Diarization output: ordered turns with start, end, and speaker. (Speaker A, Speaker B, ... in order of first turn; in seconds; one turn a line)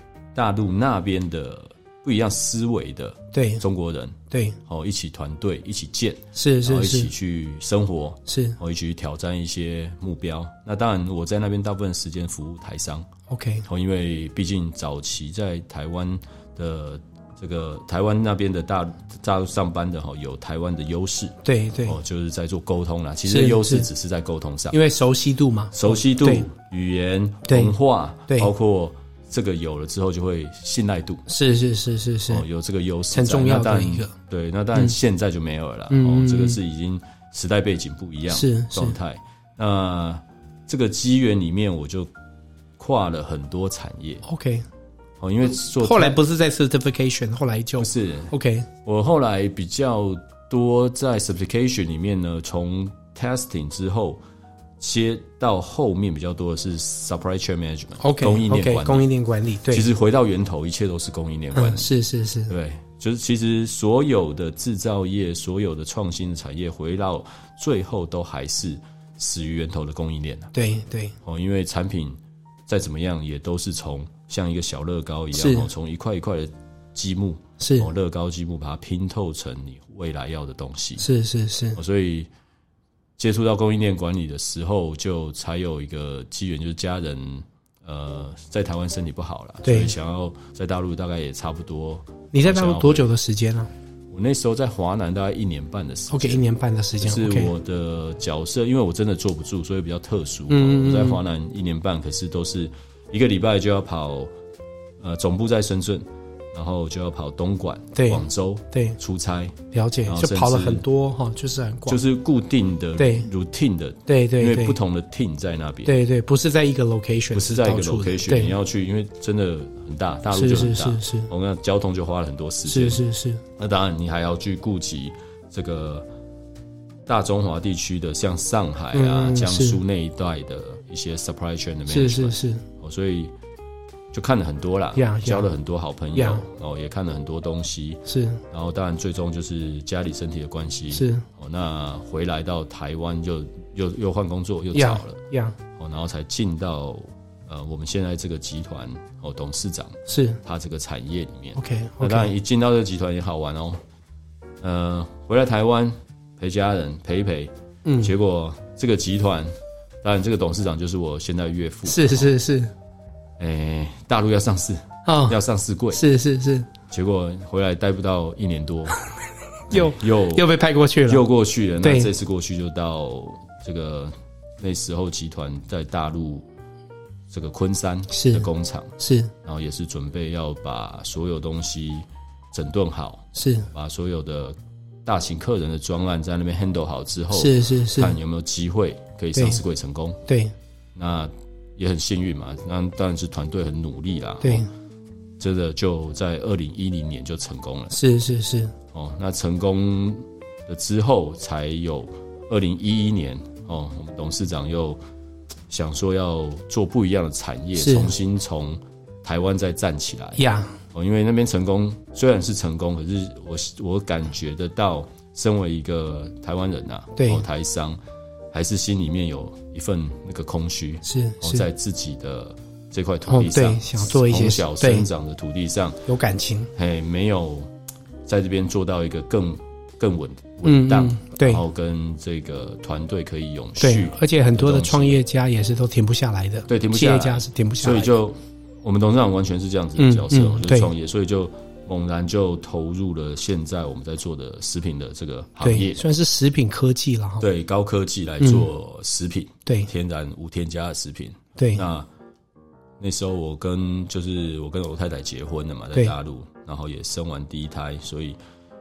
Speaker A: 0.3-13.1
Speaker B: 3.3-3.6
Speaker B: 4.3-4.6
Speaker B: 6.3-7.1
Speaker B: 8.3-8.6
Speaker B: 13.3-13.6
Speaker A: 13.7-24.8
Speaker B: 21.4-22.0
Speaker B: 23.3-23.9
Speaker B: 24.7-26.4
Speaker A: 25.7-31.2
Speaker B: 27.5-27.7
Speaker B: 31.3-32.4
Speaker A: 32.3-42.1
Speaker B: 33.1-34.1
Speaker B: 35.9-36.6
Speaker B: 38.3-39.0
Speaker A: 42.8-44.2
Speaker B: 44.2-44.6
Speaker A: 45.2-46.2
Speaker B: 45.8-48.7
Speaker A: 47.8-48.3
Speaker A: 48.8-54.2
Speaker A: 54.8-59.0
Speaker B: 58.0-59.9
Speaker A: 59.7-61.9
Speaker B: 61.5-62.5
Speaker A: 62.5-70.5
Speaker B: 70.5-71.1
Speaker A: 71.2-81.1
Speaker B: 75.3-75.7
Speaker B: 77.6-77.9
Speaker B: 81.0-81.8
Speaker A: 81.7-82.3
Speaker A: 83.2-93.1
Speaker B: 89.6-89.9
Speaker B: 92.3-93.7
Speaker A: 94.1-96.4
Speaker B: 96.1-97.5
Speaker A: 97.0-104.3
Speaker B: 100.5-101.2
Speaker A: 105.0-110.8
Speaker B: 107.9-109.0
Speaker B: 109.7-112.0
Speaker A: 111.9-115.9
Speaker B: 113.0-113.3
Speaker B: 114.1-114.8
Speaker B: 115.8-118.5
Speaker A: 117.3-123.0
Speaker B: 120.3-121.3
Speaker B: 122.7-123.4
Speaker A: 123.6-126.1
Speaker A: 127.0-133.3
Speaker B: 128.9-129.8
Speaker B: 131.9-132.6
Speaker A: 134.1-145.2
Speaker B: 134.9-135.5
Speaker B: 136.1-136.4
Speaker B: 138.1-138.4
Speaker B: 140.9-141.2
Speaker B: 144.7-145.6
Speaker A: 145.7-153.8
Speaker B: 150.1-150.4
Speaker B: 151.6-152.3
Speaker A: 154.6-162.3
Speaker B: 157.8-158.1
Speaker B: 161.9-162.7
Speaker A: 163.4-166.0
Speaker B: 165.1-165.4
Speaker B: 165.9-166.7
Speaker A: 166.9-169.0
Speaker A: 169.7-170.5
Speaker B: 169.7-171.2
Speaker A: 171.1-176.4
Speaker B: 171.8-172.1
Speaker A: 177.3-178.9
Speaker B: 178.1-178.5
Speaker B: 179.0-179.3
Speaker A: 179.4-190.2
Speaker B: 183.3-183.7
Speaker B: 187.3-188.2
Speaker B: 189.3-189.6
Speaker B: 190.3-190.5
Speaker A: 190.9-194.7
Speaker B: 194.4-194.7
Speaker A: 195.4-197.9
Speaker B: 197.9-198.7
Speaker A: 198.9-205.0
Speaker A: 205.7-210.4
Speaker B: 207.8-208.1
Speaker B: 210.4-210.8
Speaker A: 210.9-218.0
Speaker B: 217.2-217.4
Speaker A: 218.5-226.0
Speaker B: 221.0-221.6
Speaker B: 223.3-225.1
Speaker B: 226.1-226.7
Speaker A: 226.8-227.7
Speaker A: 228.2-235.2
Speaker B: 230.6-231.6
Speaker B: 233.8-238.1
Speaker A: 236.7-246.0
Speaker B: 240.0-240.9
Speaker B: 245.6-247.4
Speaker A: 247.4-252.1
Speaker B: 248.4-248.7
Speaker B: 251.6-251.8
Speaker A: 253.0-258.4